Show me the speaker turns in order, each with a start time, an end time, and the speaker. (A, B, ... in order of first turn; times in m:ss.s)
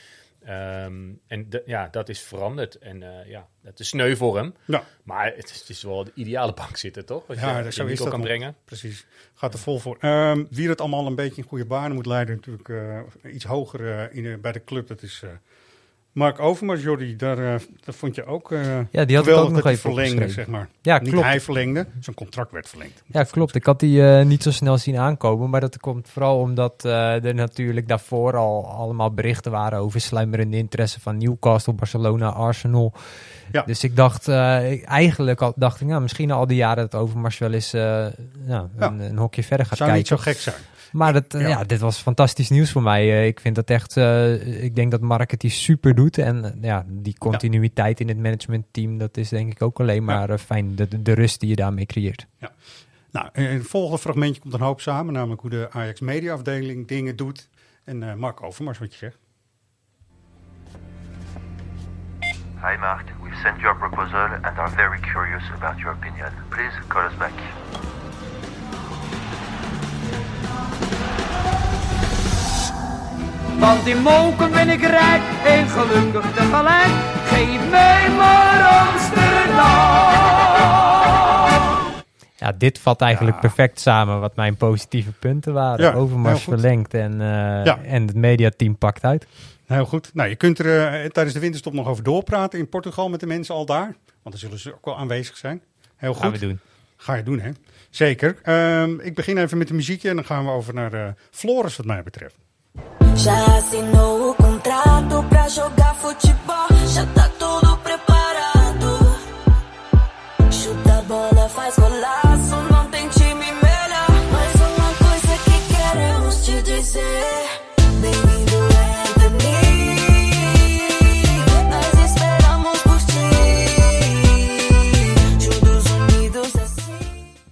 0:00.4-0:08.6 A
0:07.4-0:15.4 B
0:16.2-0:23.6 B
0:18.9-0:21.8 C
0:23.1-0:52.3 C
0:38.8-0:41.6 B
0:53.1-0:59.2 B
1:02.6-1:07.5 D
1:13.6-1:20.4 E
1:22.4-1:29.3 C
1:23.1-1:23.6 B
1:25.8-1:26.6 B
1:29.7-1:42.4 B
1:36.2-1:36.6 C
1:43.2-1:49.2 F
1:50.5-2:07.2 F